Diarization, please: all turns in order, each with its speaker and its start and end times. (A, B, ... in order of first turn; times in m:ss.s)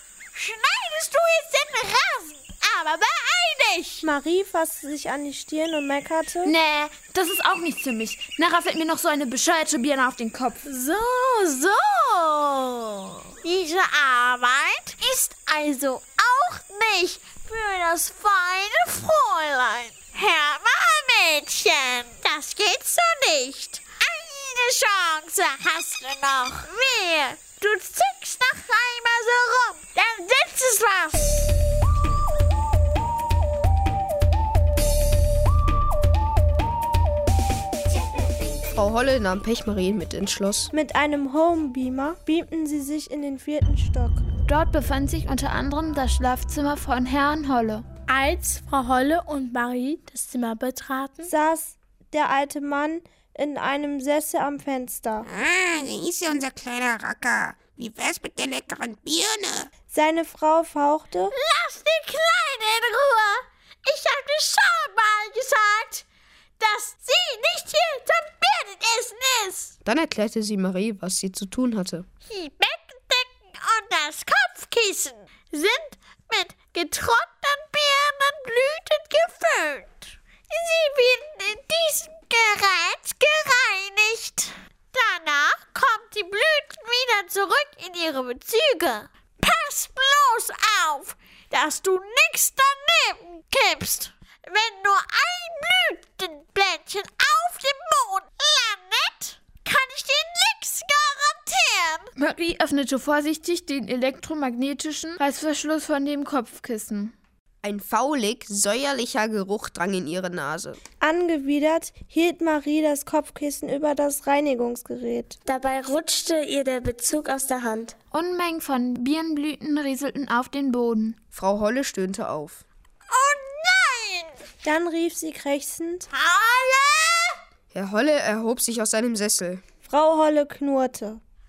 0:00.3-0:04.0 A
0:04.0-0:06.6 B
0:06.4-0:10.6 C
0:10.7-0:13.2 D
0:13.4-0:31.4 A
0:38.7-0:40.7 E
0:40.7-0:44.2 B
0:44.5-0:47.8 C
0:48.1-0:51.3 D
0:51.2-0:55.3 B
0:55.3-0:59.7 F
0:59.9-1:01.3 B
1:01.3-1:06.0 A
1:06.6-1:09.7 A
1:09.8-1:12.1 E
1:12.3-1:42.1 A
1:42.2-1:47.1 C
1:47.6-1:50.8 E
1:51.0-1:55.4 B
1:55.6-1:57.8 G
1:58.1-2:01.2 C
2:01.3-2:02.6 E
2:03.1-2:04.4 A
2:04.6-2:06.1 B
2:06.1-2:07.4 A
2:07.7-2:09.6 E
2:09.8-2:11.2 B